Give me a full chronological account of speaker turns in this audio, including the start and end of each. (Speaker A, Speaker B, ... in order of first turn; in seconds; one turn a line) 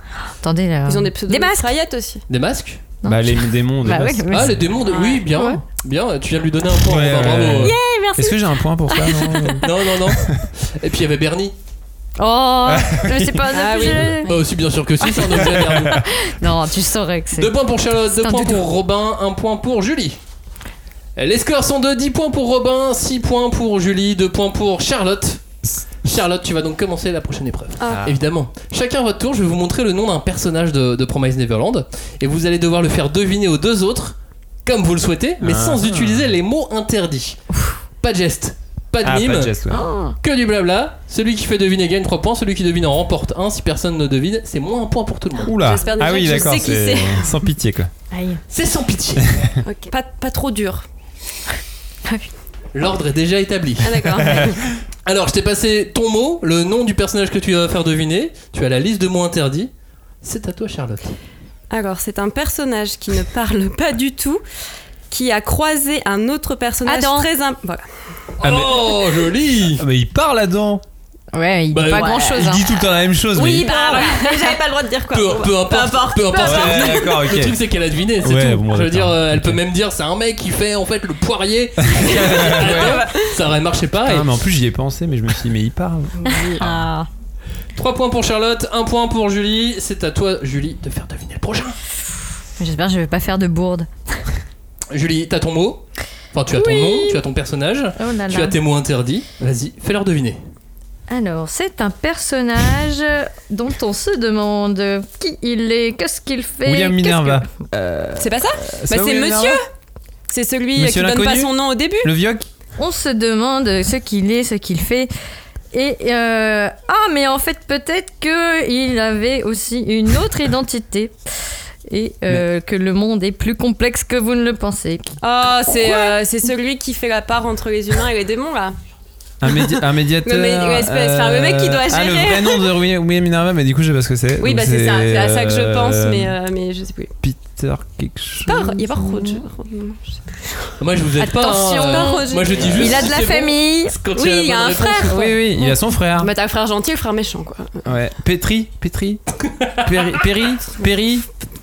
Speaker A: 0.4-1.7
Speaker B: 0.9-2.2
Speaker C: 2.3-2.8
Speaker A: 3.0-4.6
Speaker D: 3.0-4.6
Speaker C: 4.3-7.8
Speaker B: 4.8-5.3
Speaker A: 5.3-5.6
Speaker D: 6.8-10.5
Speaker A: 7.6-9.7
Speaker C: 9.6-11.5
Speaker A: 12.2-14.3
Speaker D: 12.7-13.8
Speaker B: 13.5-14.5
Speaker C: 14.3-16.1
Speaker A: 15.2-17.6
Speaker D: 15.2-16.0
Speaker C: 17.4-20.2
Speaker A: 18.1-18.7
Speaker C: 21.2-25.4
Speaker C: 26.0-37.4
Speaker B: 27.8-28.1
Speaker D: 27.9-28.2
Speaker D: 35.4-36.3
Speaker C: 38.0-39.5
Speaker D: 39.0-39.9
Speaker A: 39.7-40.1
Speaker C: 40.2-45.6
Speaker D: 45.5-47.9
Speaker B: 45.5-47.4
Speaker A: 48.1-48.4
Speaker C: 48.5-49.2
Speaker B: 49.6-50.9
Speaker C: 52.7-54.0
Speaker B: 53.8-54.7
Speaker D: 54.2-54.6
Speaker C: 55.0-59.7
Speaker C: 60.2-61.2
Speaker B: 61.7-64.4
Speaker B: 65.1-67.8
Speaker A: 66.8-67.3
Speaker C: 68.4-69.8
Speaker D: 68.4-68.9
Speaker D: 69.8-70.8
Speaker A: 71.3-72.8
Speaker C: 71.7-72.2
Speaker B: 72.0-72.3
Speaker D: 72.3-73.7
Speaker B: 73.3-77.2
Speaker A: 73.6-74.6
Speaker C: 75.1-84.3
Speaker D: 76.3-77.6
Speaker D: 78.2-79.6
Speaker D: 81.8-83.1
Speaker B: 82.1-83.3
Speaker D: 84.0-86.8
Speaker B: 86.2-86.6
Speaker A: 86.3-87.1
Speaker C: 87.8-91.8
Speaker A: 92.6-94.2
Speaker C: 94.9-100.4
Speaker A: 96.5-97.2
Speaker A: 98.0-98.6
Speaker A: 101.1-107.5
Speaker D: 106.7-109.6
Speaker B: 108.2-109.7
Speaker B: 110.3-112.1
Speaker D: 110.8-112.5
Speaker A: 112.8-115.1
Speaker A: 115.7-121.1
Speaker A: 121.9-125.2
Speaker B: 125.2-128.8
Speaker A: 125.8-126.1
Speaker D: 129.4-136.4
Speaker B: 129.4-132.8
Speaker B: 134.4-137.1
Speaker D: 137.2-138.8
Speaker B: 138.5-140.4
Speaker A: 138.9-139.4
Speaker C: 140.8-145.3
Speaker A: 141.2-144.0
Speaker B: 141.8-142.9
Speaker B: 144.1-147.8
Speaker D: 145.1-146.3
Speaker D: 147.8-149.2
Speaker C: 149.6-149.8
Speaker D: 149.8-151.3